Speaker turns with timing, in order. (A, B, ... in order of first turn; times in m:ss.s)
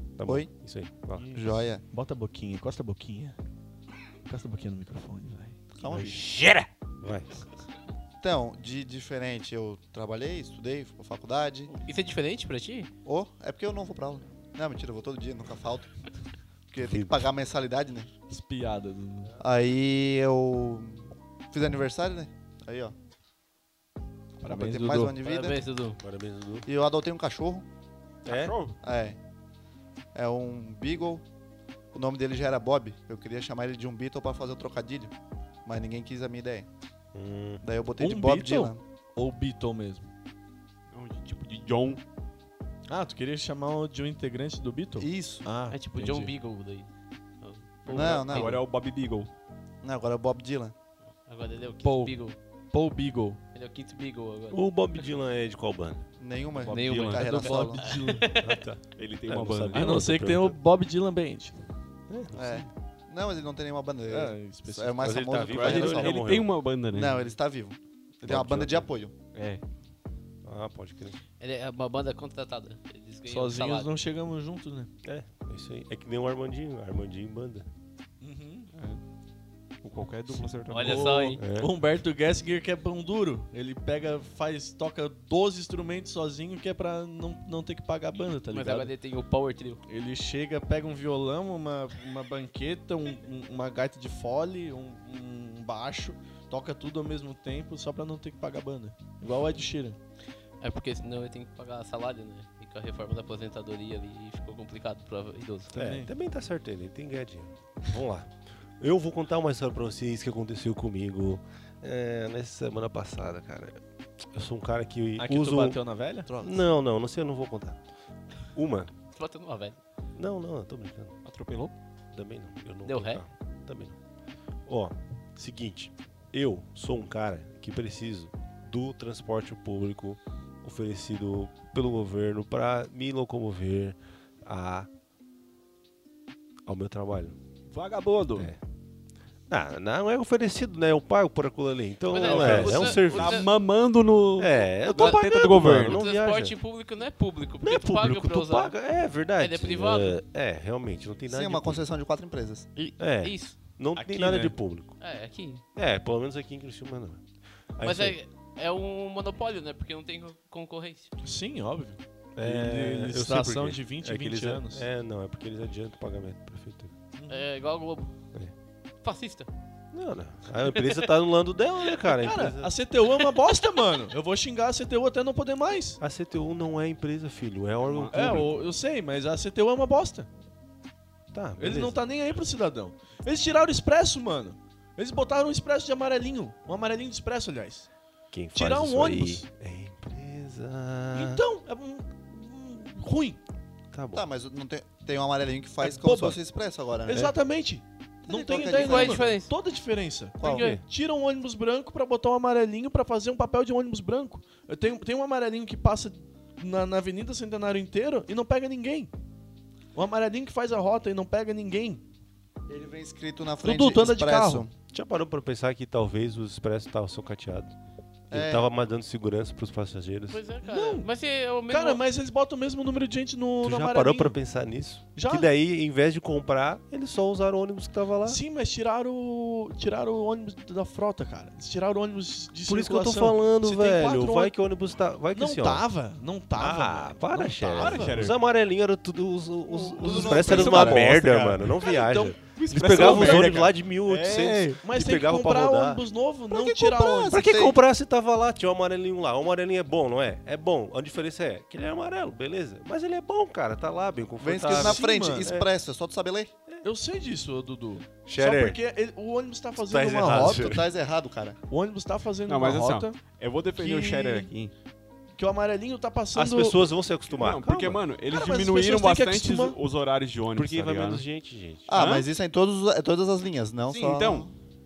0:00.2-0:01.3 A
0:00.2-0:00.5 B
0:01.1-0:03.4 C
0:01.3-0:01.8 B
0:04.2-0:05.6 C
0:05.8-0:06.3 B
0:05.8-0:07.3 A
0:08.2-0:11.7 B
0:11.7-0:12.9 D
0:13.0-0:15.9 B
0:16.7-0:18.1 B
0:16.8-0:17.2 A
0:18.3-0:19.4 C
0:19.4-0:22.9 B
0:24.4-0:25.2 C
0:24.4-0:25.7 B
0:25.2-0:26.0 D
0:26.0-0:26.7 A
0:26.7-0:27.6 B
0:28.2-0:28.6 A
0:28.3-0:28.8 E
0:28.8-0:29.2 B
0:30.1-0:31.2 B
0:31.9-0:35.1 B
0:35.6-0:36.7 B
0:37.1-0:37.6 A
0:37.6-0:38.8 B
0:38.0-0:40.1 C
0:40.9-0:42.0 E
0:42.9-0:46.4 C
0:45.0-0:45.5 B
0:45.7-0:46.9 D
0:47.4-0:48.5 D
0:47.9-0:48.4 C
0:47.9-0:48.6 B
0:48.0-0:49.3 E
0:49.8-0:50.7 B
0:51.3-0:52.4 D
0:51.8-0:52.2 C
0:52.7-0:53.4 C
0:53.6-0:54.6 D
0:54.5-0:56.0 A
0:56.2-0:57.8 B
0:56.6-0:57.4 E
0:56.7-0:58.6 D
0:57.1-0:58.3 C
0:58.4-1:00.6 A
0:59.0-1:00.0 E
0:59.7-1:01.7 C
1:02.1-1:02.7 A
1:02.3-1:06.3 B
1:04.1-1:05.2 C
1:05.0-1:06.5 A
1:05.5-1:07.3 E
1:06.9-1:09.1 B
1:08.2-1:08.9 A
1:09.3-1:09.6 E
1:10.4-1:11.2 A
1:11.4-1:13.9 D
1:13.3-1:14.9 C
1:15.0-1:17.7 A
1:18.2-1:18.7 C
1:18.8-1:19.0 E
1:19.8-1:21.2 E
1:20.7-1:21.4 D
1:20.8-1:28.9 C
1:21.4-1:21.7 A
1:28.5-1:29.8 D
1:29.9-1:40.0 C
1:40.6-1:45.8 D
1:45.7-1:46.1 C
1:45.7-1:57.8 A
1:55.2-1:56.3 C
1:56.3-1:56.6 B
1:58.4-1:58.9 A
1:59.1-1:59.8 D
2:00.2-2:01.2 A
2:01.2-2:01.7 E
2:02.1-2:04.0 A
2:02.8-2:03.2 D
2:04.7-2:14.9 A
2:16.7-2:17.4 A
2:17.7-2:18.5 E
2:19.5-2:23.5 A
2:22.1-2:23.5 D
2:22.2-2:23.2 C
2:22.2-2:26.0 E
2:24.4-2:26.6 A
2:25.0-2:28.8 D
2:27.6-2:31.9 A
2:29.4-2:30.2 D
2:31.3-2:32.7 B
2:32.8-2:33.6 D
2:33.0-2:35.0 A
2:34.0-2:34.6 C
2:35.0-2:35.6 D
2:35.8-2:37.2 A
2:37.8-2:38.2 A
2:37.8-2:41.1 D
2:41.2-2:44.9 C
2:42.4-2:46.9 A
2:47.2-2:47.5 C
2:47.3-2:48.1 D
2:49.0-2:49.5 D
2:49.9-2:52.7 A
2:52.1-2:56.0 C
2:56.0-2:58.5 A
2:57.8-2:58.5 E
2:58.1-3:00.3 C
3:01.3-3:02.0 A
3:01.6-3:07.9 C
3:08.3-3:11.4 A
3:08.5-3:09.4 C
3:11.1-3:13.4 C
3:13.9-3:14.2 A
3:14.1-3:17.3 B
3:15.8-3:16.4 C
3:17.0-3:29.1 C
3:18.2-3:19.4 B
3:18.5-3:19.5 D
3:20.4-3:20.8 D
3:20.4-3:20.7 B
3:20.5-3:20.8 A
3:30.0-3:32.0 C
3:32.7-3:34.7 B
3:33.6-3:34.6 C
3:34.9-3:37.7 A
3:38.3-3:40.4 A
3:38.3-3:38.7 B
3:40.3-3:42.0 D
3:40.6-3:41.1 C
3:41.7-3:44.4 C
3:43.6-3:48.4 A
3:45.2-3:45.5 C
3:48.2-3:54.6 C
3:52.7-3:55.8 A
3:55.3-3:58.2 C
3:56.6-4:06.0 A
3:57.8-3:58.4 E
3:59.9-4:01.0 B
4:00.0-4:07.4 C
4:00.2-4:01.8 E
4:02.4-4:03.7 E
4:06.5-4:07.8 B
4:07.3-4:15.7 A
4:14.4-4:16.5 B
4:14.6-4:15.5 C
4:16.8-4:20.8 C
4:18.3-4:18.8 A
4:19.8-4:20.9 A
4:20.4-4:21.6 B
4:21.7-4:23.2 C
4:22.5-4:24.7 E
4:23.8-4:24.5 C
4:25.4-4:26.9 C
4:26.4-4:28.0 A
4:27.3-4:31.2 E
4:28.3-4:29.8 C
4:30.5-4:31.9 A
4:31.9-4:34.5 B
4:31.9-4:32.3 E
4:33.9-4:34.5 E